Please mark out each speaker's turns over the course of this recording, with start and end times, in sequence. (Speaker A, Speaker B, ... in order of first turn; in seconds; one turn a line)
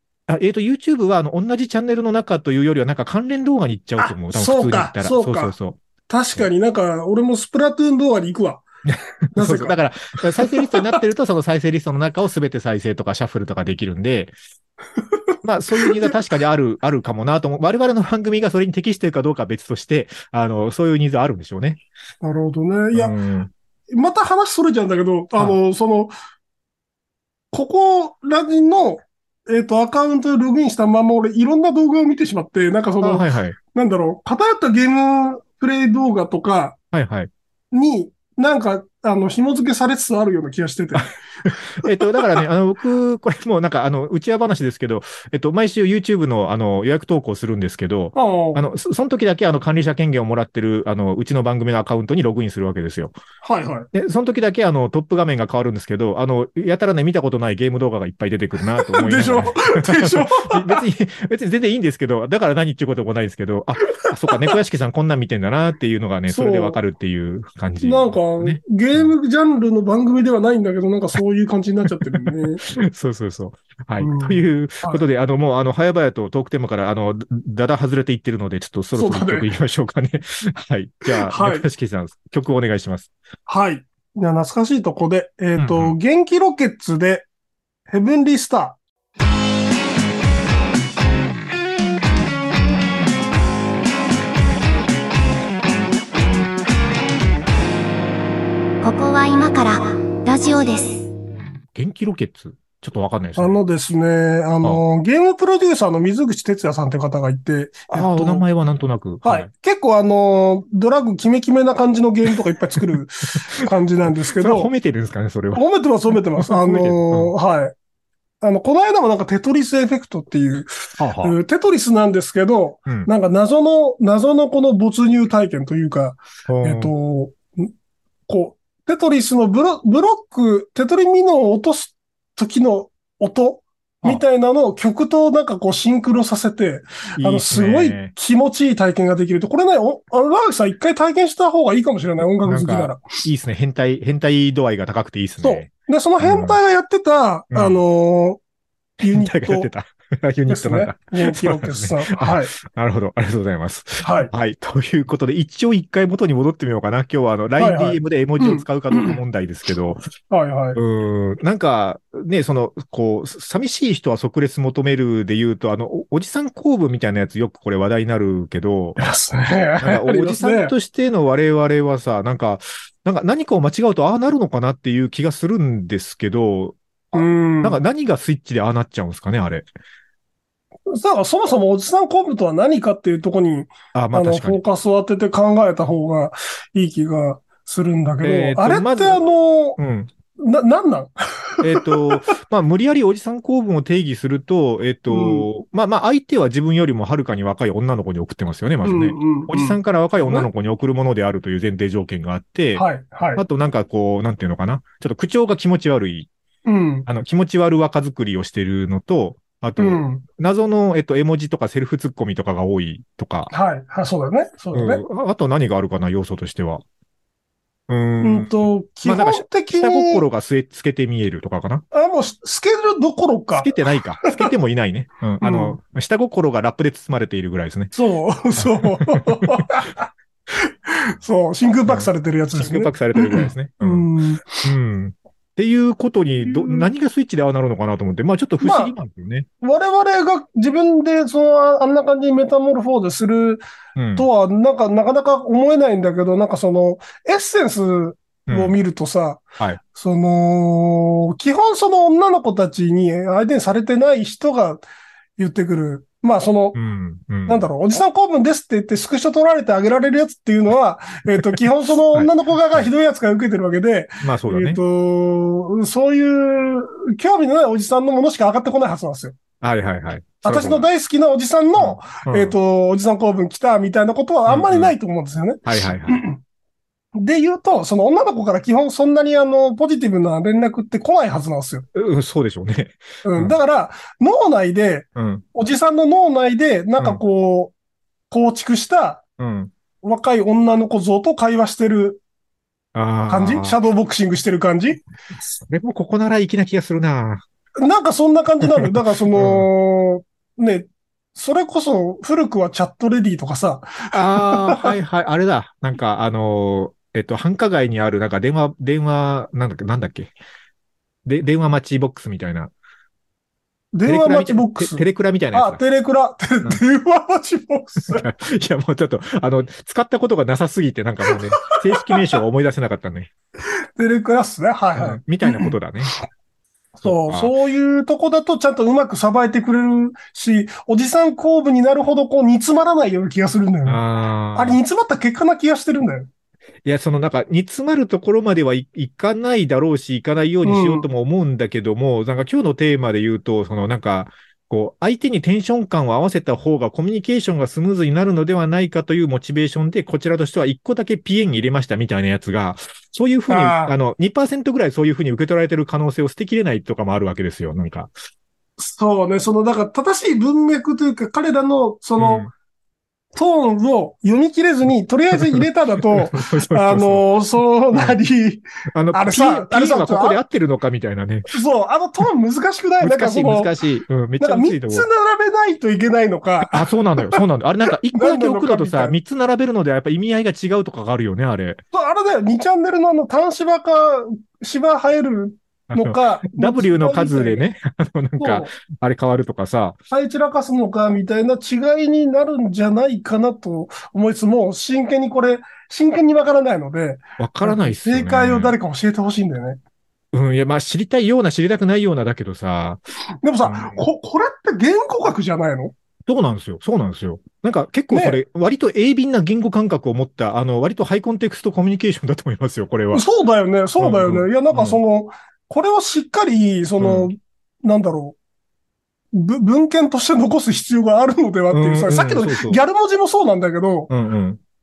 Speaker A: 0.3-5.8
Speaker B: 4.0-5.5
Speaker B: 6.1-8.7
Speaker A: 8.9-14.3
Speaker B: 9.3-9.8
Speaker B: 10.4-11.0
Speaker A: 15.4-21.8
Speaker B: 15.7-16.1
Speaker B: 22.2-23.1
Speaker A: 22.9-23.5
Speaker B: 23.9-26.1
Speaker B: 27.5-36.8
Speaker A: 33.0-33.6
Speaker A: 36.9-37.3
Speaker B: 37.7-41.1
Speaker A: 41.0-53.1
Speaker B: 48.1-48.6
Speaker B: 53.4-53.9
Speaker A: 53.9-69.1
Speaker B: 58.9-60.8
Speaker B: 64.0-64.5
Speaker B: 66.3-66.8
Speaker B: 67.8-72.6
Speaker A: 72.2-83.1
Speaker B: 74.0-75.0
Speaker B: 79.0-79.5
Speaker B: 81.3-81.7
Speaker B: 83.5-87.3
Speaker A: 85.6-86.0
Speaker B: 87.9-88.8
Speaker C: 98.8-101.1
Speaker A: 101.8-103.6
Speaker B: 103.4-108.5
Speaker A: 107.9-109.5
Speaker B: 109.2-114.7
Speaker A: 114.4-115.6
Speaker B: 115.5-117.7
Speaker A: 116.4-117.3
Speaker B: 118.4-127.7
Speaker A: 121.0-121.4
Speaker A: 126.5-126.9
Speaker B: 128.3-143.0
Speaker A: 137.2-138.1
Speaker A: 142.4-146.6
Speaker B: 145.4-148.4
Speaker A: 147.5-147.8
Speaker B: 149.0-149.7
Speaker A: 149.0-160.0
Speaker B: 150.5-152.5
Speaker B: 154.0-154.3
Speaker B: 157.6-159.2
Speaker B: 160.3-160.8
Speaker A: 160.8-169.0
Speaker B: 169.0-170.7
Speaker A: 169.8-179.7
Speaker B: 177.1-177.8
Speaker B: 180.9-189.8
Speaker A: 183.9-184.6
Speaker A: 188.2-190.1
Speaker B: 190.4-192.0
Speaker A: 191.6-202.8
Speaker B: 195.1-195.5
Speaker B: 198.8-200.5
Speaker B: 202.8-203.4
Speaker A: 203.4-206.3
Speaker B: 206.7-207.1
Speaker A: 207.1-213.5
Speaker B: 209.8-210.2
Speaker B: 213.5-215.0
Speaker A: 214.7-216.8
Speaker A: 217.9-221.8
Speaker B: 218.2-220.2
Speaker B: 221.9-223.7
Speaker A: 223.6-227.9
Speaker B: 225.4-225.8
Speaker B: 227.9-230.1
Speaker A: 228.6-229.6
Speaker B: 230.9-234.7
Speaker A: 231.9-234.1
Speaker A: 234.6-239.5
Speaker B: 236.4-236.9
Speaker B: 238.6-238.9
Speaker B: 239.6-243.6
Speaker A: 244.0-244.3
Speaker B: 244.2-254.8
Speaker A: 248.5-248.8
Speaker B: 255.4-256.8
Speaker A: 256.7-257.6
Speaker B: 257.5-269.4
Speaker A: 262.1-262.9
Speaker A: 264.2-264.8
Speaker A: 269.6-270.9
Speaker B: 270.4-276.4
Speaker A: 271.8-272.6
Speaker A: 274.5-274.9
Speaker A: 275.6-276.2
Speaker B: 277.1-281.9
Speaker A: 281.9-283.6
Speaker B: 283.2-287.7
Speaker A: 285.1-285.4
Speaker B: 288.3-289.2
Speaker A: 289.4-289.7
Speaker B: 290.0-292.2
Speaker A: 292.9-293.8
Speaker B: 293.3-295.0
Speaker A: 295.6-297.4
Speaker B: 297.8-304.9
Speaker A: 298.8-299.7
Speaker A: 304.1-310.3
Speaker A: 311.2-312.7
Speaker B: 313.9-318.3
Speaker A: 314.1-315.8
Speaker A: 318.1-323.3
Speaker B: 321.6-322.2
Speaker B: 324.0-325.8
Speaker A: 325.0-326.1
Speaker B: 327.0-334.0
Speaker A: 327.0-327.5
Speaker A: 333.9-334.8
Speaker B: 334.5-336.3
Speaker A: 336.9-358.1
Speaker B: 340.6-341.1
Speaker B: 353.5-353.9
Speaker B: 358.8-362.5
Speaker A: 362.2-362.5
Speaker B: 363.4-370.4
Speaker A: 365.4-365.6
Speaker A: 366.1-367.3
Speaker A: 367.9-368.2
Speaker A: 368.9-371.5
Speaker B: 371.5-373.7
Speaker A: 373.0-375.1
Speaker B: 374.4-377.4
Speaker A: 376.7-381.8
Speaker B: 378.1-379.1
Speaker B: 381.9-387.6
Speaker A: 385.9-390.0
Speaker B: 388.4-388.7
Speaker B: 390.1-399.8
Speaker A: 397.4-398.8
Speaker A: 400.3-403.0
Speaker B: 403.4-405.9
Speaker A: 403.6-404.1
Speaker A: 406.3-413.2
Speaker B: 408.1-408.4
Speaker B: 413.1-418.4
Speaker A: 414.0-415.0
Speaker A: 417.0-417.3
Speaker B: 419.3-424.1
Speaker A: 421.7-422.8
Speaker A: 424.1-424.6